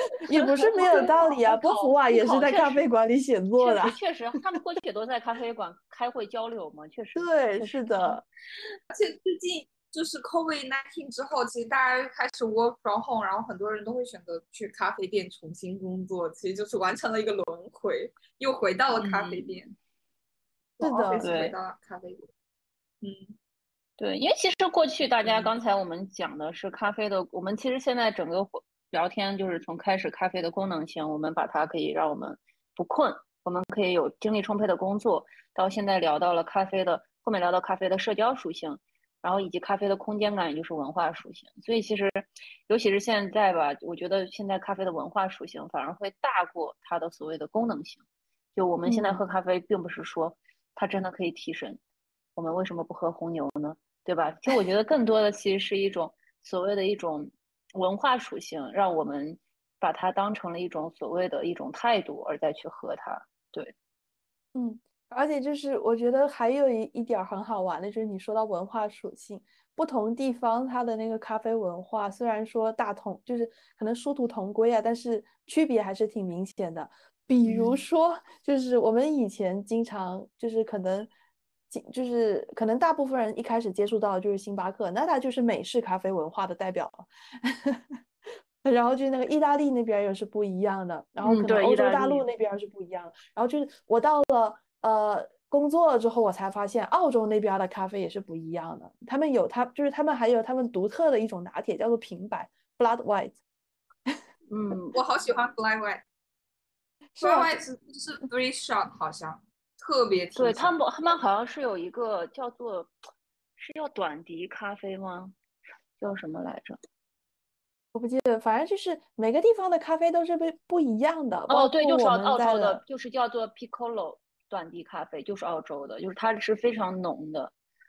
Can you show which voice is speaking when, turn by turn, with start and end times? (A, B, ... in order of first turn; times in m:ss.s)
0:00.2-0:04.0 A
0:00.6-0:02.8 B
0:03.6-0:08.2 B
0:07.1-0:08.2 A
0:08.9-0:19.6 C
0:18.9-0:19.7 B
0:20.8-0:22.3 C
0:20.8-0:21.2 A
0:21.2-0:21.5 B
0:23.0-0:23.4 C
0:24.0-0:48.0 B
0:48.5-0:51.8 B
0:48.8-0:49.2 A
0:52.4-1:03.7 B
1:04.5-1:21.1 A
1:21.7-1:27.8 A
1:28.6-1:43.4 A
1:31.2-1:32.2 B
1:44.5-1:45.0 B
1:44.9-1:46.0 C
1:47.1-1:47.6 A
1:47.2-1:50.8 C
1:50.4-1:52.9 B
1:53.6-1:55.4 B
1:56.0-1:56.8 B
1:57.9-2:02.8 A
2:01.5-2:07.5 B